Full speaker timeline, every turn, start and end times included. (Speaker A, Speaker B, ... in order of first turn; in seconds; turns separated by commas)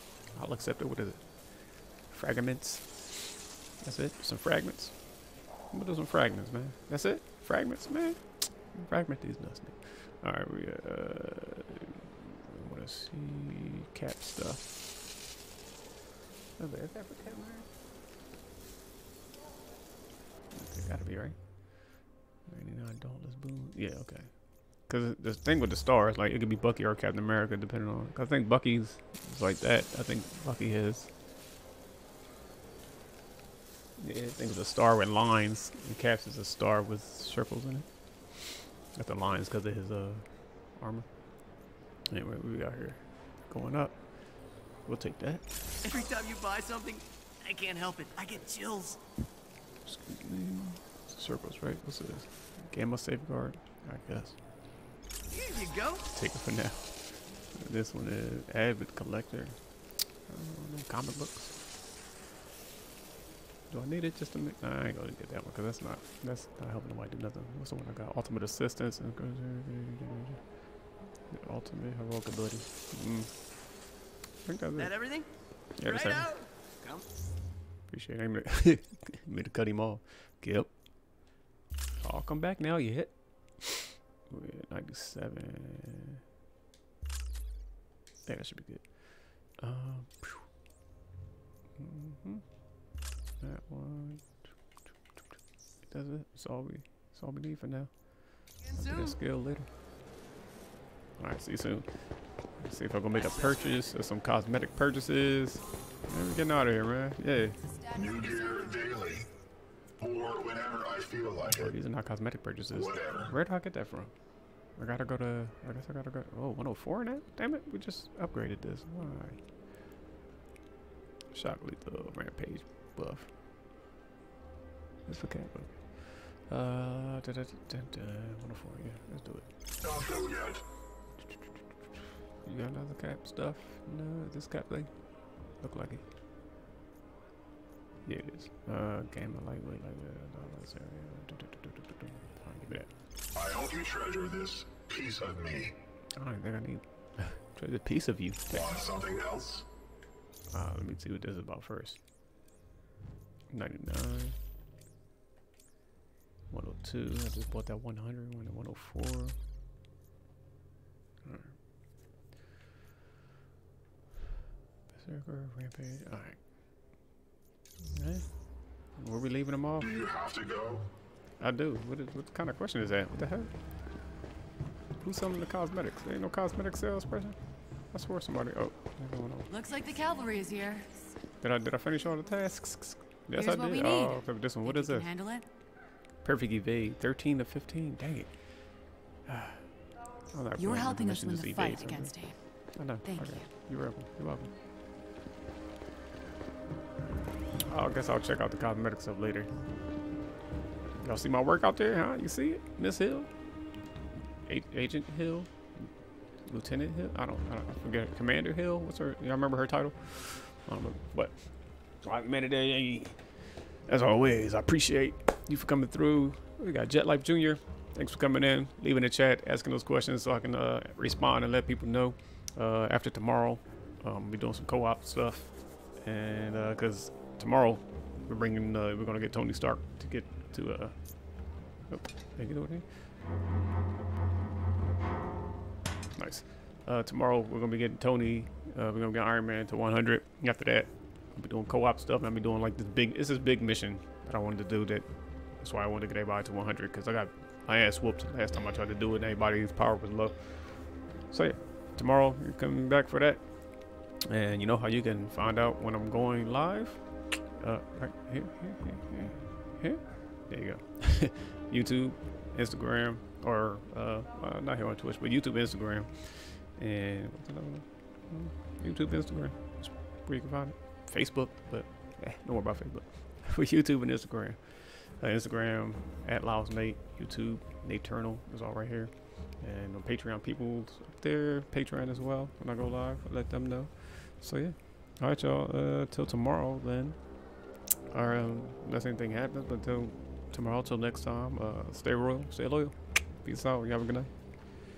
Speaker A: 0.3-1.4, Speaker A: 2.1-2.9, Speaker A: 3.8-5.0, Speaker A: 5.7-14.7, Speaker A: 16.6-17.7, Speaker A: 20.5-21.9, Speaker A: 22.5-31.1, Speaker A: 34.0-37.9, Speaker A: 38.4-41.1, Speaker A: 42.1-44.0, Speaker A: 44.9-45.4, Speaker B: 45.8-49.0, Speaker A: 49.9-54.4, Speaker B: 55.3-56.1, Speaker A: 56.1-59.6, Speaker A: 60.3-61.5, Speaker A: 63.7-70.4, Speaker A: 71.3-73.3, Speaker A: 74.5-75.0, Speaker B: 74.8-77.1, Speaker A: 75.8-76.3, Speaker A: 77.9-80.7, Speaker A: 82.0-86.2, Speaker A: 88.2-90.5, Speaker A: 91.8-92.4, Speaker A: 93.4-94.5, Speaker A: 95.9-99.7, Speaker C: 98.7-99.2, Speaker A: 101.2-101.9, Speaker A: 102.6-107.6, Speaker B: 103.1-103.8, Speaker C: 107.6-109.0, Speaker D: 107.9-109.3, Speaker D: 110.0-111.8, Speaker A: 111.5-114.1, Speaker D: 112.7-113.4, Speaker A: 114.8-119.4, Speaker A: 121.3-123.3, Speaker A: 125.1-129.5, Speaker D: 129.8-130.6, Speaker A: 131.3-134.9, Speaker A: 135.6-136.0, Speaker A: 138.1-142.9, Speaker D: 143.3-145.8, Speaker A: 146.2-148.7, Speaker D: 148.5-149.7, Speaker A: 150.5-152.0, Speaker A: 153.5-154.4, Speaker A: 156.5-159.4, Speaker A: 161.2-161.5, Speaker A: 164.9-166.4, Speaker A: 167.9-168.3, Speaker A: 168.9-170.0, Speaker D: 169.8-170.9, Speaker A: 171.4-173.5, Speaker A: 175.0-177.4, Speaker A: 177.9-179.5, Speaker C: 179.5-180.9, Speaker A: 181.4-185.1, Speaker C: 183.3-185.5, Speaker A: 186.2-188.5, Speaker A: 189.3-189.7, Speaker A: 190.3-194.5, Speaker C: 190.6-193.5, Speaker A: 197.7-199.5, Speaker A: 201.0-203.3, Speaker A: 204.5-205.9, Speaker A: 206.4-211.5, Speaker A: 212.0-213.2, Speaker A: 213.9-230.9, Speaker A: 231.9-232.8, Speaker A: 236.2-253.5, Speaker A: 254.2-287.2, Speaker A: 288.1-294.3